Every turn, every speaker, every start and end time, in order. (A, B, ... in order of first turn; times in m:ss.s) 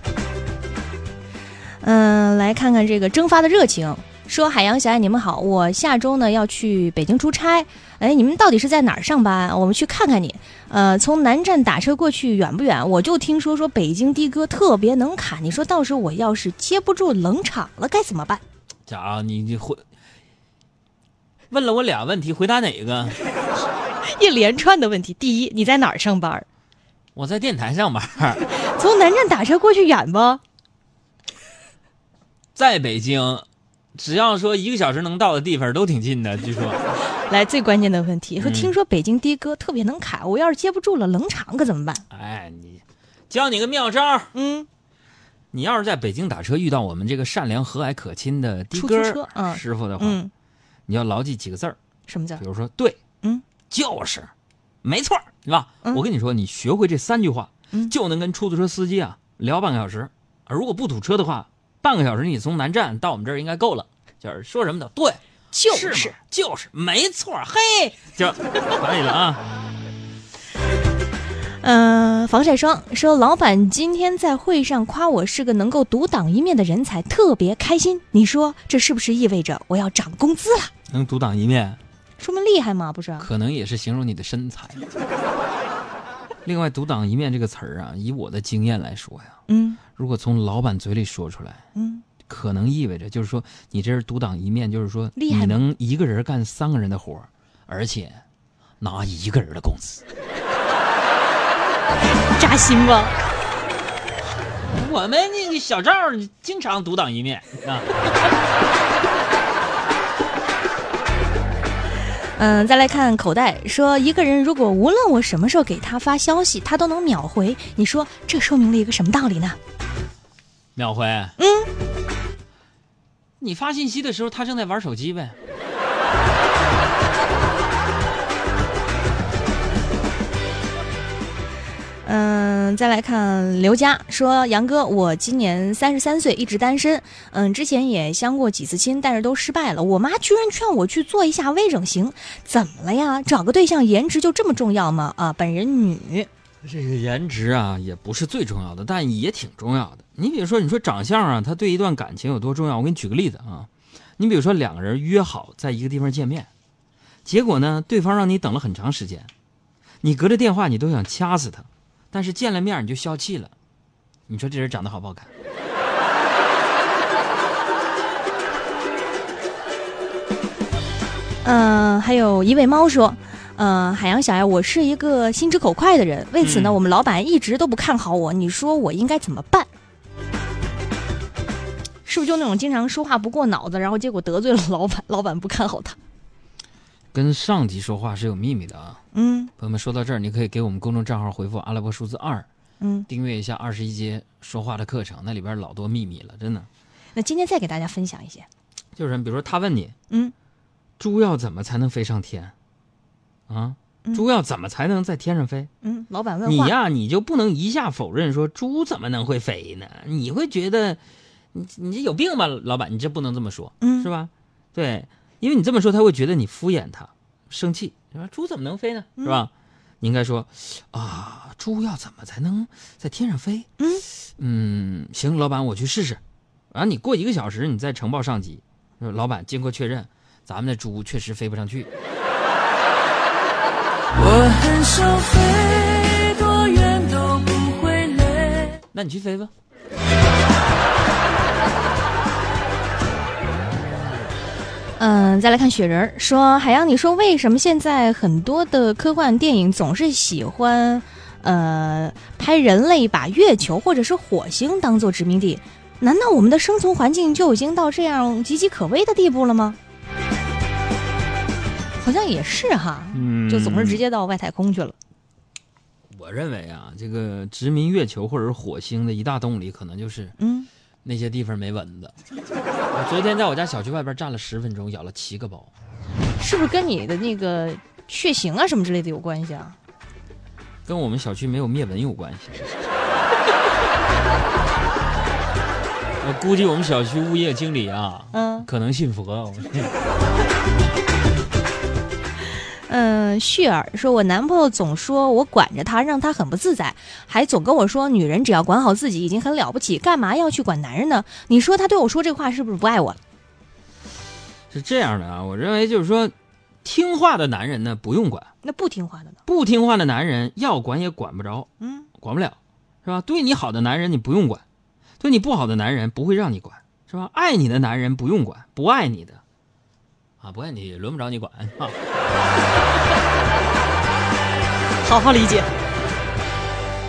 0:01.8-0:18.4 A
0:18.9-0:19.8 B
0:21.5-0:23.2 B
0:24.0-0:26.5 A
0:27.2-0:28.4 B
0:28.4-0:30.4 A
0:32.6-0:36.8 B
0:37.1-0:42.0 A
0:38.4-0:38.7 B
0:42.1-0:44.3 B
0:44.3-0:44.7 A
0:45.5-0:50.2 B
0:48.8-0:50.3 A
0:50.9-0:51.8 B
0:52.1-0:52.4 A
0:52.4-0:53.0 B
0:53.7-0:54.3 B
0:54.8-1:09.4 B
1:05.5-1:06.2 A
1:11.6-1:20.7 A
1:20.9-1:21.8 B
1:22.2-1:23.3 A
1:23.2-1:24.8 B
1:26.4-1:29.4 B
1:29.5-1:29.8 A
1:30.0-1:31.6 B
1:31.8-1:32.0 A
1:32.3-1:38.2 B
1:35.2-1:35.6 A
1:38.8-1:40.0 B
1:42.4-1:43.2 A
1:44.7-1:47.9 B
1:52.4-1:59.6 A
2:00.8-2:01.4 B
2:01.4-2:01.7 A
2:03.4-2:05.4 B
2:12.0-2:26.3 A
2:26.6-2:36.5 B
2:37.3-2:39.3 B
2:40.0-2:43.5 B
2:44.3-2:45.3 B
2:51.4-2:59.7 A
2:56.4-2:56.8 B
3:02.1-3:06.0 A
3:07.1-3:09.0 B
3:09.1-3:09.5 A
3:09.6-3:12.5 B
3:12.8-3:13.1 A
3:13.1-3:16.7 B
3:17.2-3:18.5 A
3:19.0-3:19.9 B
3:21.0-3:22.5 B
3:23.5-3:25.7 B
3:25.8-3:26.7 A
3:26.4-3:31.0 B
3:31.5-3:43.7 B
3:33.8-3:34.1 A
3:43.8-3:44.0 A
3:44.3-3:51.9 B
3:54.2-3:58.8 C
3:58.9-3:59.5 B
4:05.0-4:19.8 A
4:22.0-4:25.0 A
4:23.1-4:24.0 B
4:26.1-4:30.4 B
4:30.4-4:30.7 A
4:31.0-4:32.1 B
4:32.9-4:35.7 B
4:36.4-4:39.8 A
4:40.9-4:42.7 B
4:46.2-4:49.9 B
4:48.3-4:48.7 A
4:52.9-5:03.2 A
5:04.7-5:06.3 B
5:06.8-5:08.5 B
5:08.6-5:09.4 A
5:09.5-5:14.6 B
5:11.8-5:12.1 A
5:15.2-5:19.4 B
5:20.4-5:22.0 B
5:25.0-5:25.7 A